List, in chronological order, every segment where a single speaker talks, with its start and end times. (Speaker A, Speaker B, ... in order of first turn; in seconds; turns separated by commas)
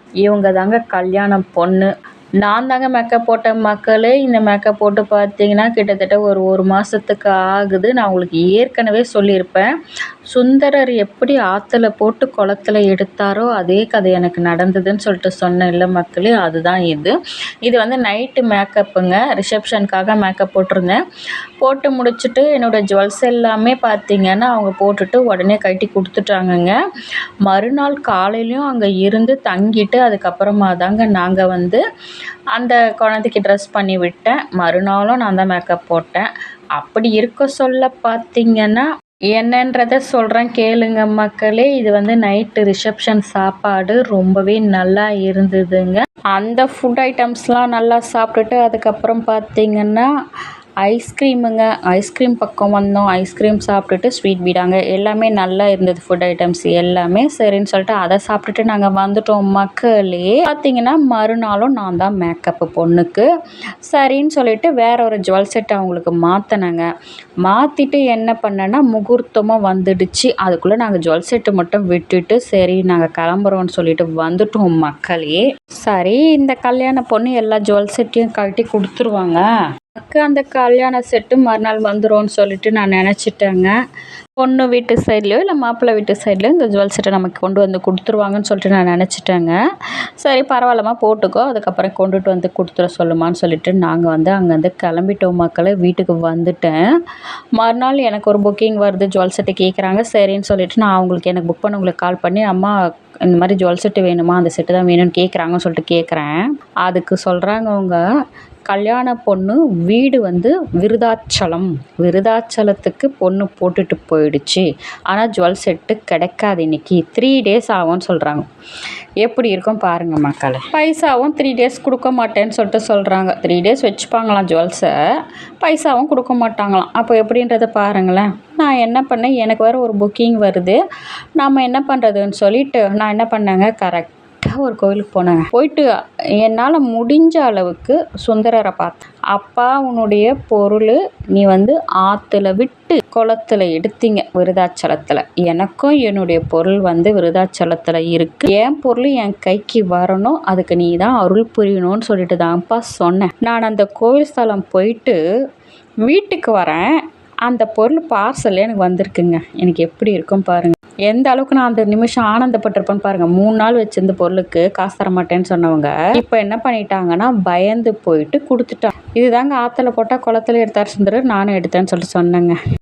Speaker A: 0.2-1.9, Speaker A: 2.4-9.7, Speaker A: 10.3-17.1, Speaker A: 17.6-21.0, Speaker A: 21.6-26.7, Speaker A: 27.5-31.8, Speaker A: 32.5-50.1, Speaker A: 50.8-63.2, Speaker A: 63.9-66.8, Speaker A: 67.4-79.4, Speaker A: 80.0-83.7, Speaker A: 84.4-89.5, Speaker A: 90.2-96.8, Speaker A: 97.6-108.0, Speaker A: 108.7-118.5, Speaker A: 119.2-124.9, Speaker A: 125.6-130.8, Speaker A: 131.4-135.9, Speaker A: 136.4-155.2, Speaker A: 156.1-156.9, Speaker A: 157.5-172.6